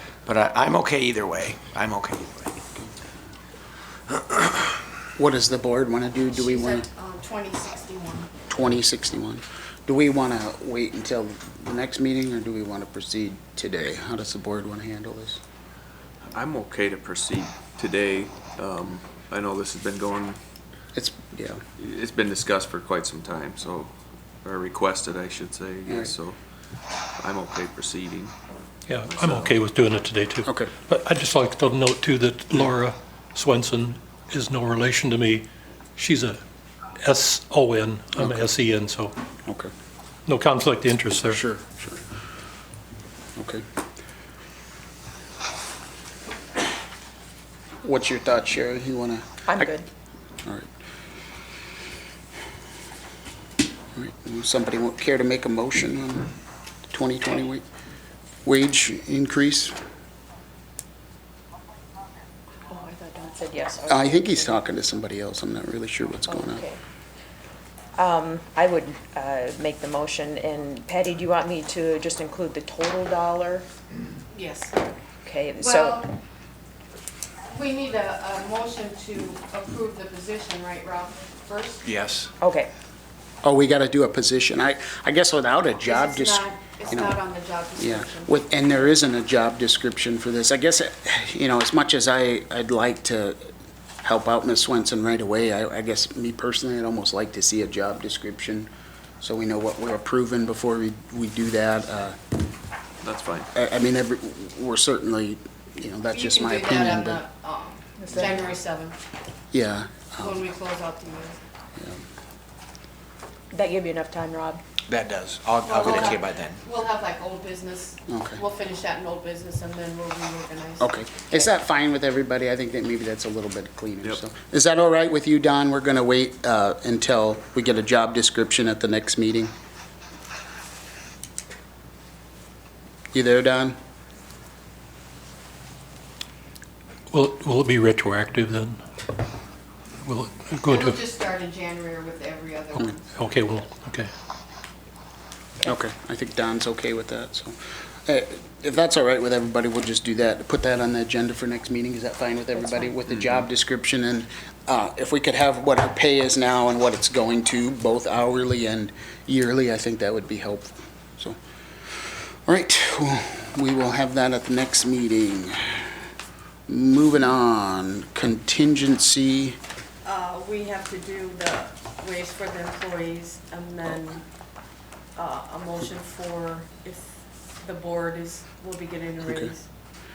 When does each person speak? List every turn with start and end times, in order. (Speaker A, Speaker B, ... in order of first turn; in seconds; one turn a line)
Speaker A: 0.2-2.5
Speaker B: 5.2-6.9
Speaker C: 6.3-8.3
Speaker B: 8.5-15.4
Speaker D: 16.3-20.4
Speaker B: 20.9-21.6
Speaker D: 21.8-26.4
Speaker B: 25.9-26.1
Speaker D: 27.2-28.3
Speaker E: 28.9-36.4
Speaker D: 29.0-29.7
Speaker B: 30.4-30.7
Speaker E: 37.0-39.1
Speaker B: 38.2-38.5
Speaker B: 39.5-39.7
Speaker E: 40.3-41.4
Speaker B: 41.3-42.0
Speaker B: 43.4-43.6
Speaker B: 47.8-49.7
Speaker F: 49.5-49.9
Speaker B: 54.0-56.3
Speaker B: 56.9-57.6
Speaker B: 58.5-59.7
Speaker F: 62.7-64.5
Speaker B: 63.9-66.7
Speaker F: 66.3-66.8
Speaker F: 68.0-73.7
Speaker C: 74.3-74.8
Speaker F: 75.2-76.0
Speaker C: 75.6-76.1
Speaker C: 77.5-82.1
Speaker A: 81.9-82.3
Speaker F: 82.4-82.7
Speaker B: 83.4-87.2
Speaker C: 85.8-88.4
Speaker B: 87.8-93.5
Speaker B: 94.0-98.7
Speaker B: 99.2-102.2
Speaker D: 103.0-103.5
Speaker B: 103.5-107.2
Speaker C: 106.1-109.0
Speaker F: 108.0-108.5
Speaker B: 109.5-110.4
Speaker C: 110.2-111.4
Speaker F: 113.5-114.6
Speaker A: 114.9-116.6
Speaker C: 115.6-121.0
Speaker B: 115.8-116.2
Speaker B: 118.1-118.4
Speaker B: 120.8-129.5
Speaker B: 133.1-133.8
Speaker E: 137.1-138.8
Speaker E: 140.0-141.0
Speaker C: 140.7-143.2
Speaker E: 143.2-144.1
Speaker B: 145.6-161.4
Speaker B: 162.5-165.9
Speaker B: 166.7-169.6
Speaker C: 170.0-174.2
Speaker C: 175.2-179.7
Speaker B: 179.2-179.5